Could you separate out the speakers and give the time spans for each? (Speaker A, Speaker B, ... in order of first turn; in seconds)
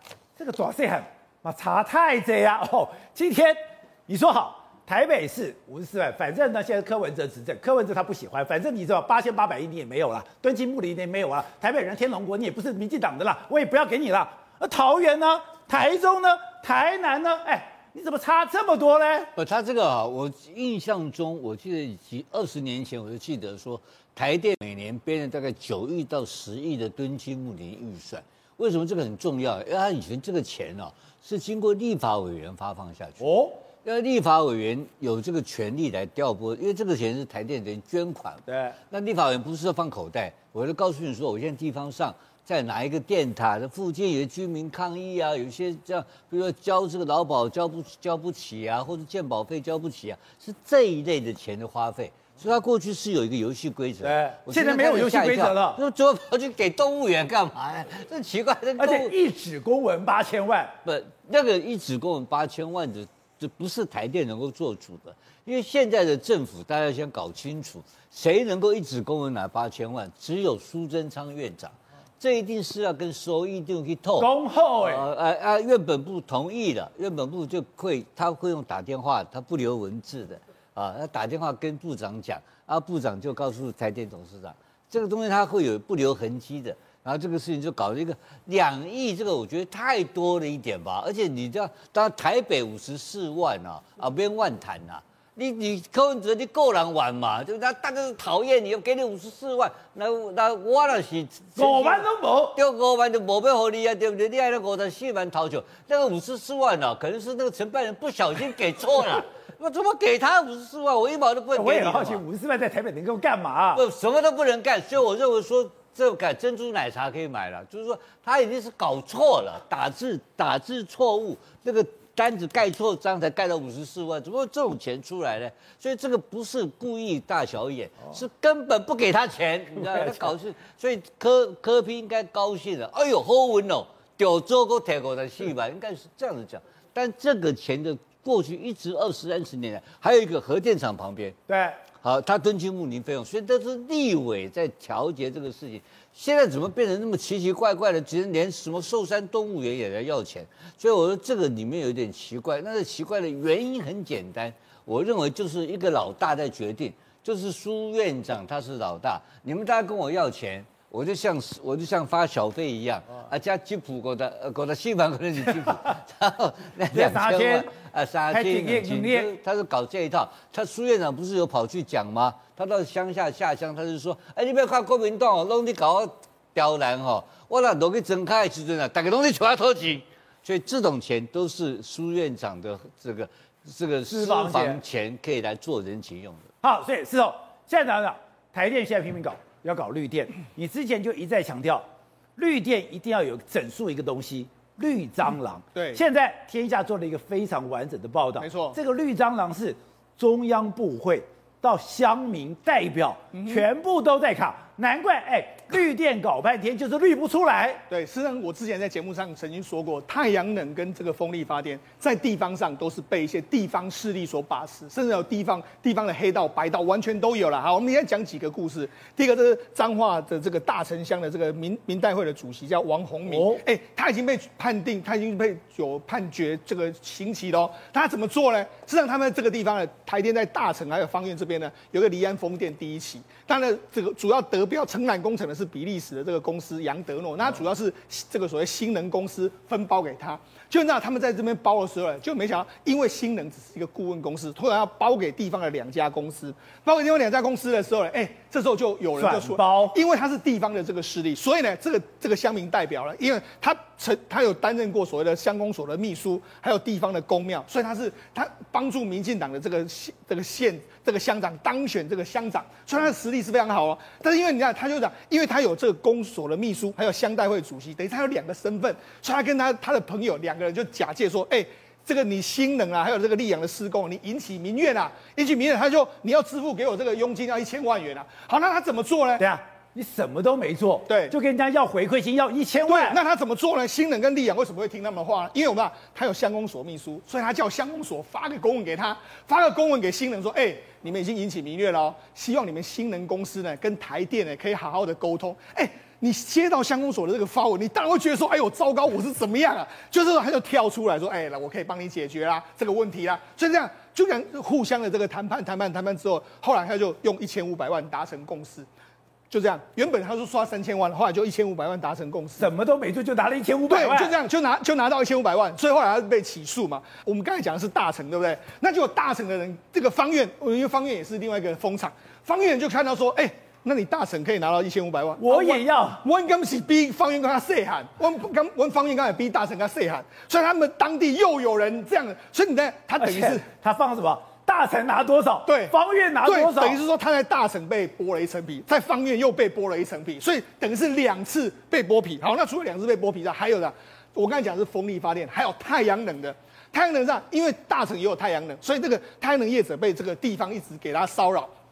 Speaker A: 0.4-19.3, 33.2-33.6, 38.5-38.8, 54.0-55.8, 58.8-60.8, 74.2-75.1, 101.6-102.6, 111.5-113.8, 129.8-130.3, 141.5-141.8, 166.9-167.7, 168.3-169.3, 184.1-184.8, 186.6-191.8, 192.4-207.8, 223.3-223.6, 249.2-249.9, 279.4-283.2, 312.6-314.4, 325.4-326.2, 333.2-337.0
Speaker B: 19.4-33.3, 33.8-59.1, 60.8-102.0, 102.6-112.2, 113.7-141.4, 142.0-186.5
Speaker C: 195.8-196.0, 198.4-198.8, 203.3-203.7, 207.9-279.5, 281.1-281.4, 282.9-308.9, 309.5-312.7, 313.9-333.7, 335.7-351.7